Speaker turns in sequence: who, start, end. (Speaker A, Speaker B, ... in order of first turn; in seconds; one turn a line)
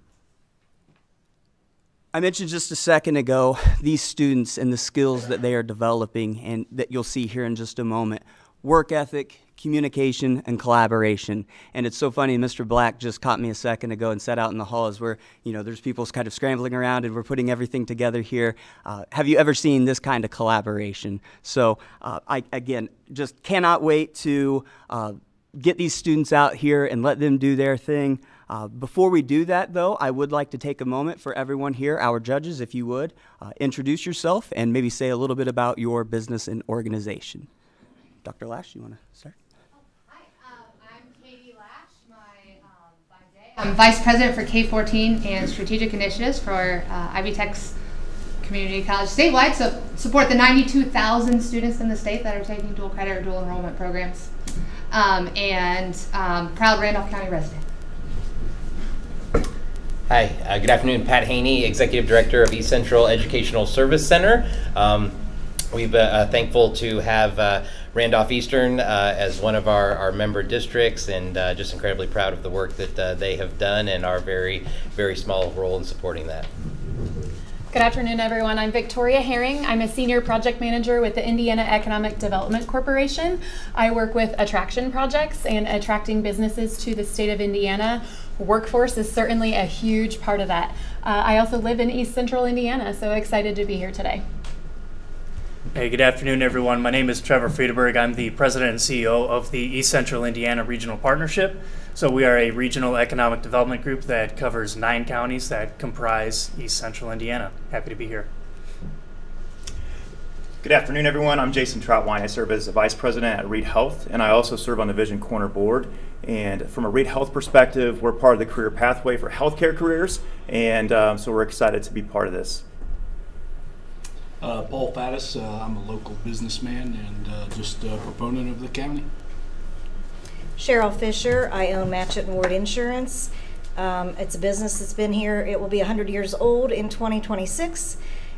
Speaker A: 2.1-37.5
Speaker A: 38.2-39.4
Speaker B: 40.1-47.7
Speaker B: 48.4-54.3
Speaker B: 54.9-57.6
Speaker C: 60.1-65.2
Speaker C: 65.7-76.5
Speaker D: 77.7-94.2
Speaker E: 95.7-108.3
Speaker F: 110.6-122.6
Speaker G: 124.4-129.1
Speaker H: 130.6-138.0